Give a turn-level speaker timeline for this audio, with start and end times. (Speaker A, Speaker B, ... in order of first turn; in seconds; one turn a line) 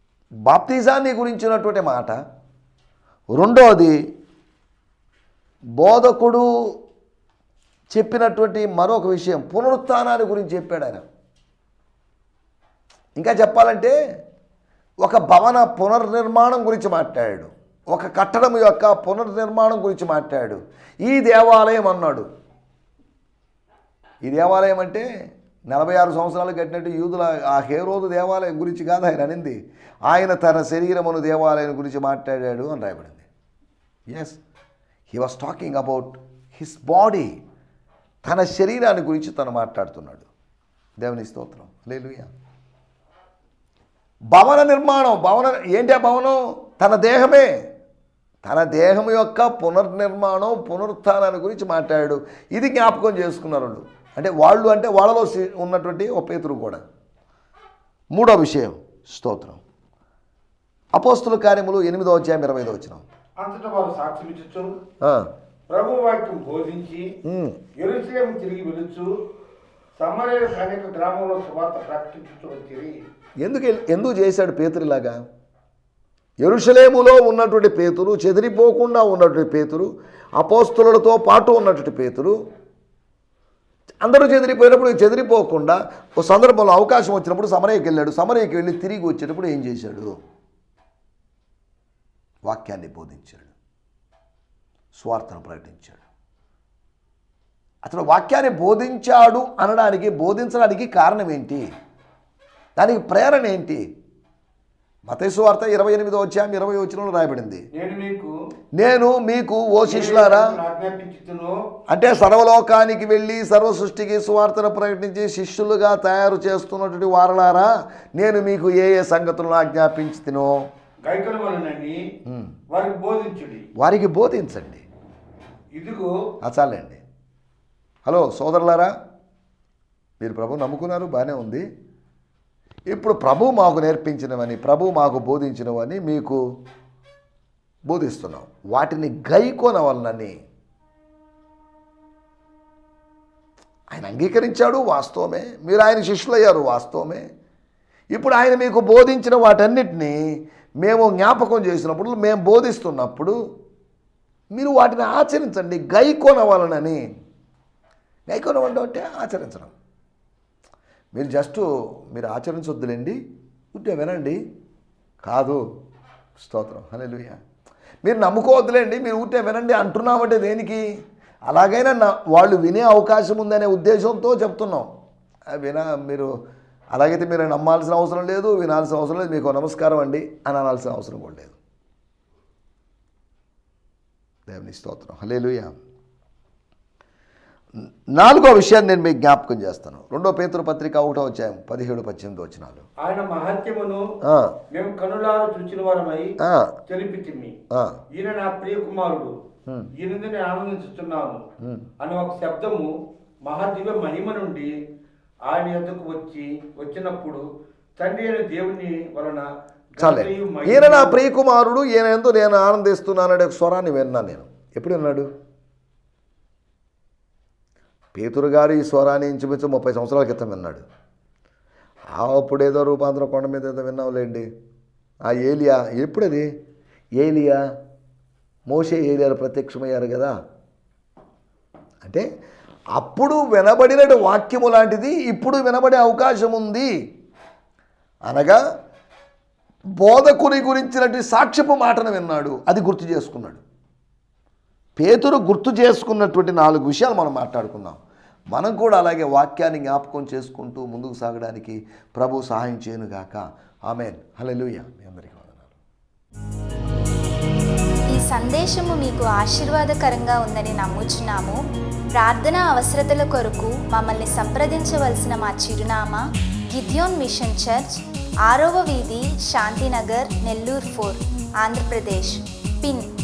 Speaker A: 0.5-2.2
Speaker A: 3.3-3.9
Speaker A: 5.8-6.5
Speaker A: 7.9-11.0
Speaker A: 13.2-13.9
Speaker A: 15.0-22.2
Speaker A: 24.2-25.1
Speaker A: 25.7-33.2
Speaker A: 34.1-34.4
Speaker A: 35.1-37.4
Speaker A: 38.2-40.3
Speaker A: 41.0-42.3
Speaker A: 44.3-47.5
Speaker A: 48.4-56.8
Speaker A: 58.1-59.6
Speaker A: 60.9-63.0
Speaker B: 63.4-64.7
Speaker A: 65.0-65.3
Speaker B: 65.7-67.2
Speaker A: 67.2-67.6
Speaker B: 67.8-69.1
Speaker B: 70.0-73.0
Speaker A: 73.4-75.2
Speaker A: 76.4-82.4
Speaker A: 84.0-90.1
Speaker A: 92.4-93.5
Speaker A: 94.9-96.0
Speaker A: 97.8-101.7
Speaker A: 102.8-103.8
Speaker A: 105.1-107.7
Speaker B: 107.7-108.3
Speaker A: 108.8-110.6
Speaker B: 109.9-111.6
Speaker A: 111.9-120.6
Speaker B: 121.0-122.0
Speaker A: 122.2-122.5
Speaker B: 122.7-123.7
Speaker A: 123.8-124.8
Speaker B: 125.7-126.1
Speaker A: 126.4-127.0
Speaker A: 128.1-128.9
Speaker A: 130.2-131.7
Speaker A: 132.9-136.4
Speaker A: 137.9-140.3
Speaker A: 143.9-147.2
Speaker A: 148.1-150.2
Speaker A: 150.8-153.3
Speaker A: 154.5-157.0
Speaker A: 158.3-159.7
Speaker A: 161.1-163.2
Speaker A: 163.7-164.4
Speaker A: 165.2-165.6
Speaker A: 166.4-167.4
Speaker A: 168.0-170.8
Speaker A: 171.5-174.9
Speaker A: 175.5-176.3
Speaker A: 176.9-181.6
Speaker A: 184.5-185.7
Speaker A: 187.8-192.8
Speaker B: 193.0-194.1
Speaker A: 194.2-194.6
Speaker B: 194.7-196.3
Speaker A: 196.4-196.7
Speaker B: 196.9-197.6
Speaker A: 197.7-198.0
Speaker B: 198.1-199.3
Speaker B: 199.9-201.4
Speaker A: 201.6-201.9
Speaker B: 202.0-202.9
Speaker B: 203.4-204.7
Speaker B: 205.5-207.4
Speaker B: 208.0-209.4
Speaker B: 210.0-211.2
Speaker A: 210.0-215.3
Speaker A: 218.1-220.8
Speaker A: 222.1-224.4
Speaker A: 225.2-226.5
Speaker A: 227.2-227.6
Speaker A: 228.7-230.3
Speaker A: 232.9-236.9
Speaker A: 238.2-238.6
Speaker A: 240.0-243.6
Speaker A: 245.0-248.0
Speaker A: 248.5-255.8
Speaker C: 258.1-261.6
Speaker C: 262.1-273.1